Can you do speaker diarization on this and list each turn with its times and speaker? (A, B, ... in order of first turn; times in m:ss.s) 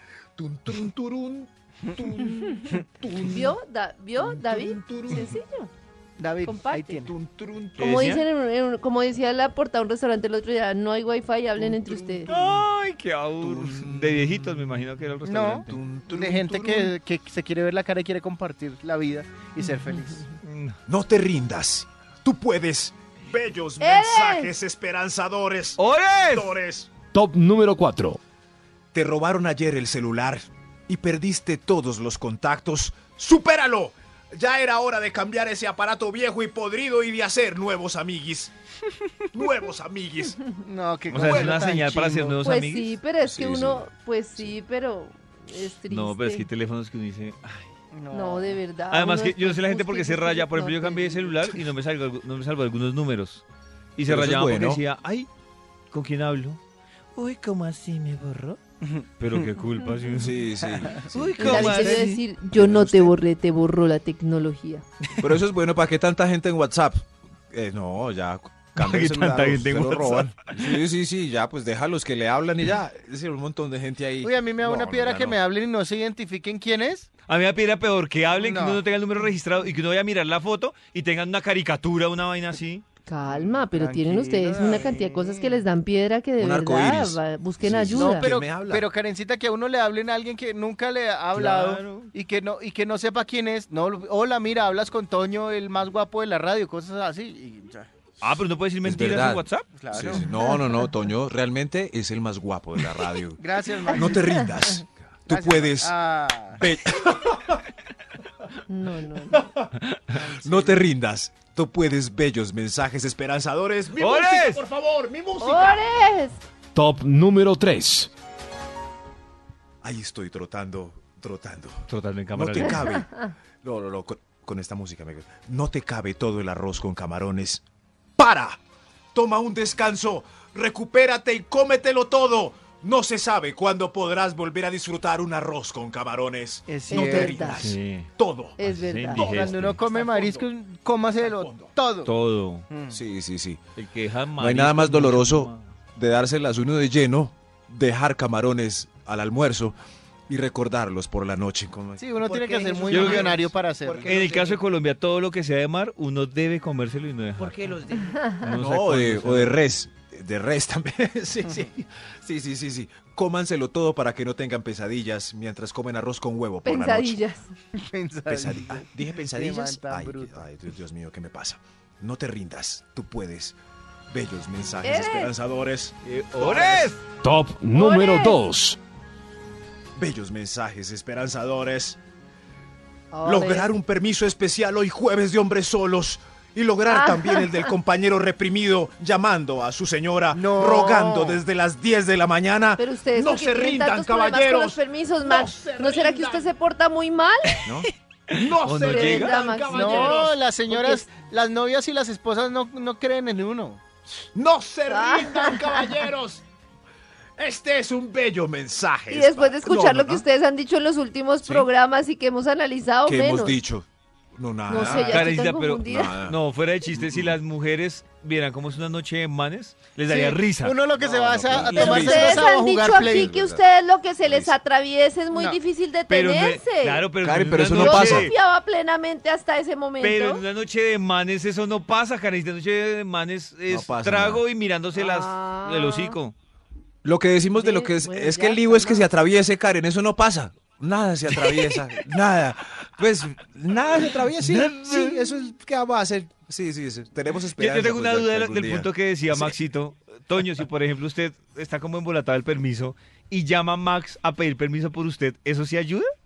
0:00.4-0:03.6 A
0:03.3-0:05.7 B
0:04.2-0:05.3 A
0:06.2-0:07.1 C
0:06.4-0:07.0 B
0:07.0-0:08.0 A
0:07.8-0:08.2 D
0:07.8-0:12.3 B
0:11.6-0:12.5 C
0:12.3-0:15.8 D
0:13.4-0:14.6 A
0:15.2-0:20.3 C
0:15.7-0:16.9 A
0:20.4-0:20.8 D
0:20.9-0:26.9 A
0:23.8-0:24.5 B
0:25.8-0:26.6 D
0:27.1-0:28.2 E
0:28.9-0:38.5 A
0:39.3-0:40.4 A
0:40.6-0:42.4 C
0:41.1-0:43.0 D
0:41.2-0:41.6 A
0:42.4-0:46.5 B
0:43.2-0:44.5 A
0:45.9-0:47.7 D
0:47.9-0:48.6 C
0:48.1-0:51.3 B
0:48.9-0:53.4 D
0:54.0-0:55.3 D
0:54.0-0:54.8 A
0:55.9-0:56.6 D
0:57.1-0:58.6 D
0:58.8-0:59.4 C
0:59.2-1:02.2 D
1:00.1-1:03.2 A
1:01.4-1:04.8 B
1:05.2-1:15.4 A
1:08.8-1:10.5 D
1:14.2-1:17.1 C
1:17.3-1:22.8 D
1:18.3-1:18.8 C
1:23.1-1:28.3 B
1:23.2-1:25.6 C
1:26.4-1:28.9 A
1:27.9-1:37.9 C
1:31.3-1:32.1 D
1:38.2-1:39.7 D
1:38.8-1:45.9 A
1:39.7-1:40.2 C
1:43.4-1:44.4 C
1:45.3-1:46.6 C
1:46.6-1:47.6 A
1:48.7-1:49.4 B
1:49.3-1:55.8 A
1:50.1-1:50.8 C
1:54.0-1:54.6 D
1:55.4-1:56.4 B
1:56.7-1:58.1 E
1:59.8-2:07.6 A
2:01.9-2:02.8 D
2:08.2-2:08.6 A
2:09.1-2:18.6 A
2:16.7-2:17.4 C
2:16.9-2:17.7 B
2:17.5-2:18.1 D
2:18.6-2:19.3 B
2:18.6-2:19.9 D
2:19.1-2:22.1 C
2:19.9-2:20.4 A
2:21.2-2:21.7 A
2:22.0-2:22.6 D
2:22.7-2:23.0 C
2:22.9-2:23.6 A
2:23.8-2:25.7 D
2:24.3-2:29.8 A
2:30.3-2:34.6 A
2:32.0-2:34.2 C
2:32.9-2:33.4 D
2:34.0-2:37.7 D
2:37.4-2:47.2 A
2:38.4-2:39.6 D
2:46.6-2:47.5 B
2:47.7-2:50.4 C
2:48.2-2:53.6 A
2:54.1-2:57.0 A
2:54.8-2:55.3 B
2:56.0-2:57.0 D
2:57.2-2:58.8 E
2:57.7-2:58.4 B
3:00.0-3:02.0 A
3:03.1-3:03.7 B
3:03.2-3:16.5 A
3:06.9-3:07.7 B
3:10.3-3:11.4 C
3:12.8-3:17.6 B
3:17.6-3:20.4 A
3:18.3-3:19.4 D
3:18.7-3:21.0 B
3:19.7-3:23.8 C
3:24.1-3:26.4 A
3:24.9-3:25.9 B
3:27.4-3:30.2 A
3:29.1-3:33.6 B
3:31.4-3:31.7 A
3:33.0-3:35.3 A
3:34.7-3:36.2 B
3:34.7-3:42.4 D
3:35.8-3:36.4 A
3:36.9-3:37.3 A
3:40.1-3:43.3 C
3:41.4-3:43.6 A
3:41.6-3:47.0 B
3:44.2-3:44.6 A
3:45.3-3:45.6 C
3:46.1-3:48.3 D
3:47.2-3:48.3 A
3:47.7-3:50.4 B
3:50.0-3:56.3 D
3:53.7-3:54.4 A
3:54.9-3:56.2 B
3:57.0-4:09.5 A
3:57.5-3:59.1 B
4:01.3-4:01.8 D
4:04.3-4:05.5 D
4:07.6-4:16.1 D